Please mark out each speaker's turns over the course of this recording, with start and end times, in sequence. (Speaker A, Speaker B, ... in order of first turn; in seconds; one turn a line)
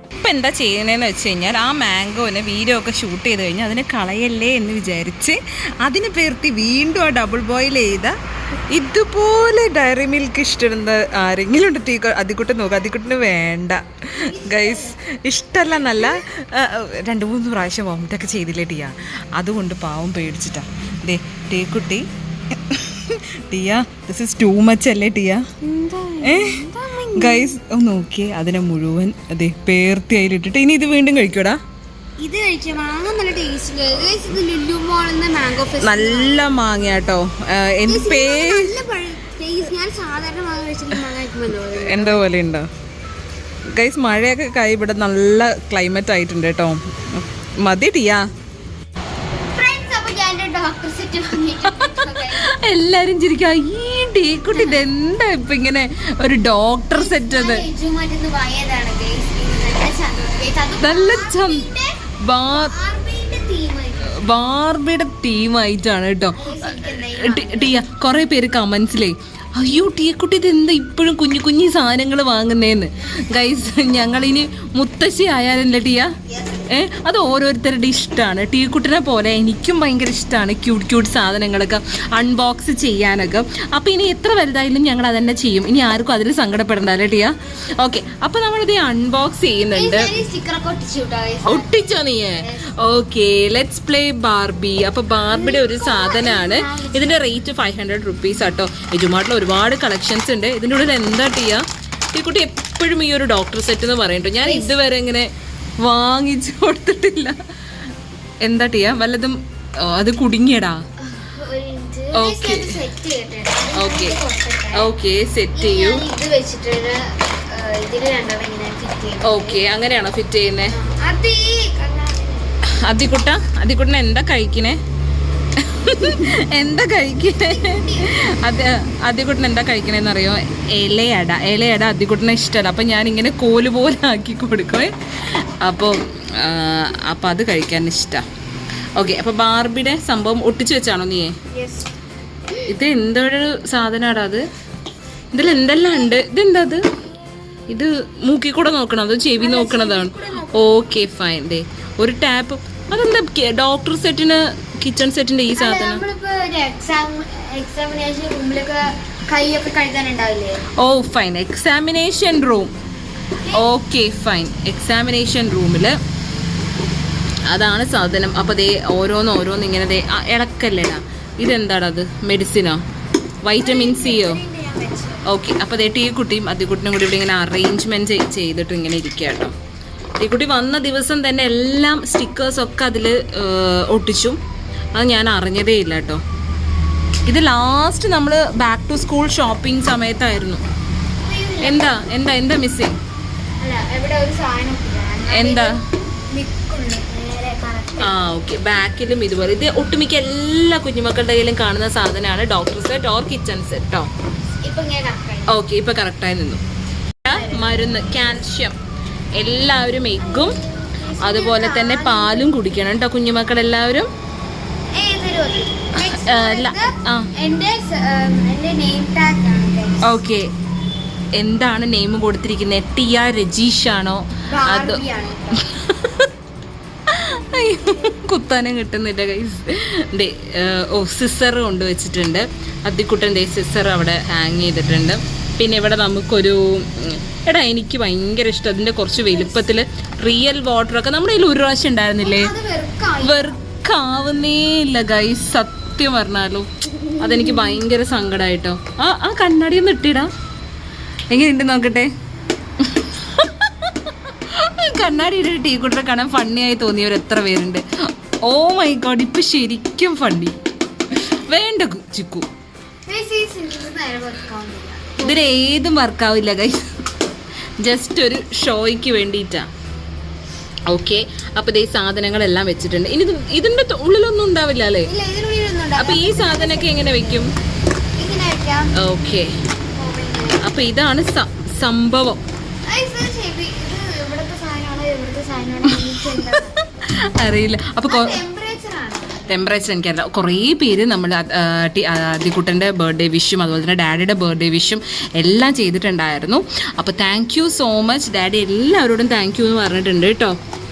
Speaker A: 0.2-8.2
Speaker A: 8.7-25.4
Speaker B: 14.2-15.0
Speaker B: 15.9-16.3
Speaker B: 25.6-27.5
Speaker A: 26.2-26.6
Speaker A: 27.1-31.6
Speaker B: 32.2-36.6
Speaker A: 35.8-38.8
Speaker B: 37.9-42.3
Speaker A: 41.7-42.7
Speaker A: 43.7-48.3
Speaker B: 49.5-52.5
Speaker A: 51.6-57.6
Speaker B: 54.5-54.9
Speaker B: 56.9-62.0
Speaker A: 60.8-61.7
Speaker A: 62.2-62.8
Speaker B: 62.5-64.2
Speaker A: 64.0-76.1
Speaker B: 66.3-67.8
Speaker B: 76.3-76.6
Speaker A: 76.7-90.1
Speaker B: 89.7-92.8
Speaker A: 91.5-107.3
Speaker B: 95.3-97.3
Speaker B: 104.4-104.8
Speaker A: 108.4-110.8
Speaker B: 111.1-114.9
Speaker A: 112.1-112.8
Speaker A: 113.8-114.2
Speaker A: 114.7-116.0
Speaker B: 115.5-119.6
Speaker A: 119.2-120.7
Speaker B: 120.7-122.5
Speaker A: 122.8-124.8
Speaker A: 125.6-138.2
Speaker B: 126.0-126.3
Speaker B: 127.4-128.1
Speaker A: 139.0-141.3
Speaker B: 141.5-141.9
Speaker A: 142.6-144.4
Speaker A: 145.3-146.8
Speaker A: 147.7-156.0
Speaker B: 149.4-150.9
Speaker B: 155.5-160.6
Speaker A: 160.8-162.7
Speaker B: 163.5-163.7
Speaker A: 163.5-165.9
Speaker A: 167.5-172.8
Speaker A: 173.4-174.4
Speaker B: 173.6-175.3
Speaker A: 175.2-179.5
Speaker A: 180.2-184.4
Speaker A: 185.0-186.2
Speaker A: 187.3-190.6
Speaker B: 191.2-192.0
Speaker A: 191.6-193.0
Speaker B: 193.6-195.8
Speaker A: 195.3-195.8
Speaker B: 196.3-198.3
Speaker A: 198.0-204.1
Speaker B: 204.6-205.6
Speaker A: 205.5-206.6
Speaker A: 207.2-208.8
Speaker B: 207.3-208.0
Speaker A: 209.4-210.6
Speaker B: 210.3-212.6
Speaker A: 211.2-214.1
Speaker B: 214.9-220.1
Speaker A: 215.9-217.3
Speaker A: 220.0-220.5
Speaker A: 221.4-226.3
Speaker B: 224.4-225.7
Speaker A: 227.1-242.5
Speaker B: 239.3-239.7
Speaker B: 242.2-243.6
Speaker A: 243.2-250.3
Speaker B: 247.1-247.7
Speaker A: 251.3-252.1
Speaker A: 252.8-257.8
Speaker A: 258.4-260.6
Speaker A: 261.1-262.5
Speaker B: 263.1-265.5
Speaker A: 265.2-266.8
Speaker A: 267.8-269.7
Speaker A: 270.9-275.1
Speaker B: 275.0-277.5
Speaker A: 276.0-277.5
Speaker B: 278.2-278.9
Speaker A: 279.0-279.5
Speaker B: 280.0-280.6
Speaker A: 280.6-282.4
Speaker B: 282.9-286.8
Speaker A: 285.8-288.4
Speaker B: 288.1-289.6
Speaker A: 289.5-300.6